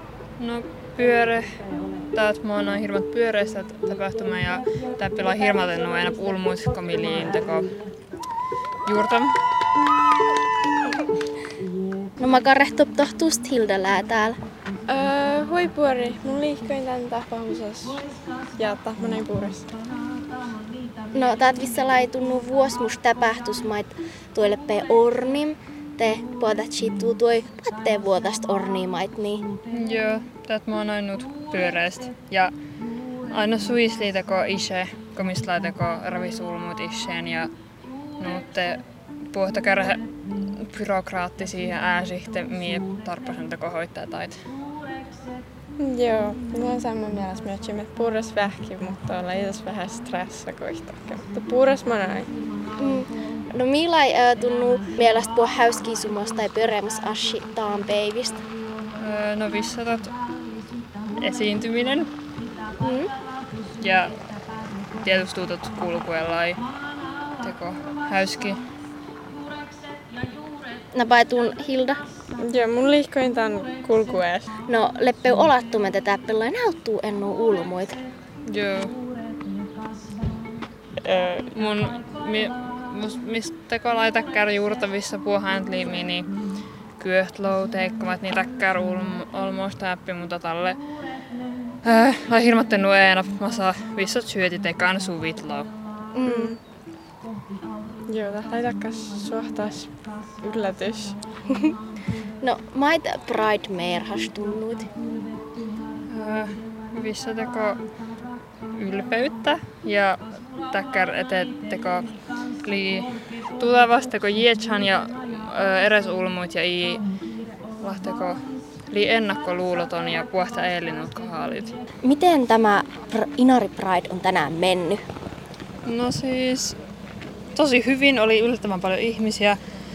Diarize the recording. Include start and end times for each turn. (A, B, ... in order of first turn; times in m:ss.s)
0:00.4-0:01.5 A
0:02.1-0:07.7 A
0:08.8-0:09.4 A
0:12.2-0:14.4 B
0:14.9-0:18.0 C
0:18.6-0:19.7 C
0:21.1-0:29.4 B
0:29.7-0:32.5 A
0:33.3-0:37.5 A
0:38.2-0:44.5 A
0:45.8-0:52.3 C
0:52.8-0:58.4 B
0:59.0-1:00.1 A
1:01.2-1:02.1 A
1:02.8-1:03.1 B
1:03.8-1:04.2 A
1:05.0-1:06.6 A
1:07.4-1:08.6 A
1:10.9-1:12.0 B
1:12.4-1:14.5 C
1:14.7-1:18.0 B
1:18.5-1:18.9 A
1:21.0-1:21.4 C
1:21.5-1:26.3 A
1:27.0-1:30.8 A
1:31.8-1:35.7 A
1:36.1-1:36.6 B
1:36.2-1:36.6 C
1:38.1-1:41.2 C
1:42.4-1:44.9 B
1:46.1-1:47.8 A
1:48.7-1:57.0 A
1:57.8-2:01.7 A
2:02.0-2:05.0 B
2:05.8-2:06.8 A
2:07.5-2:09.6 A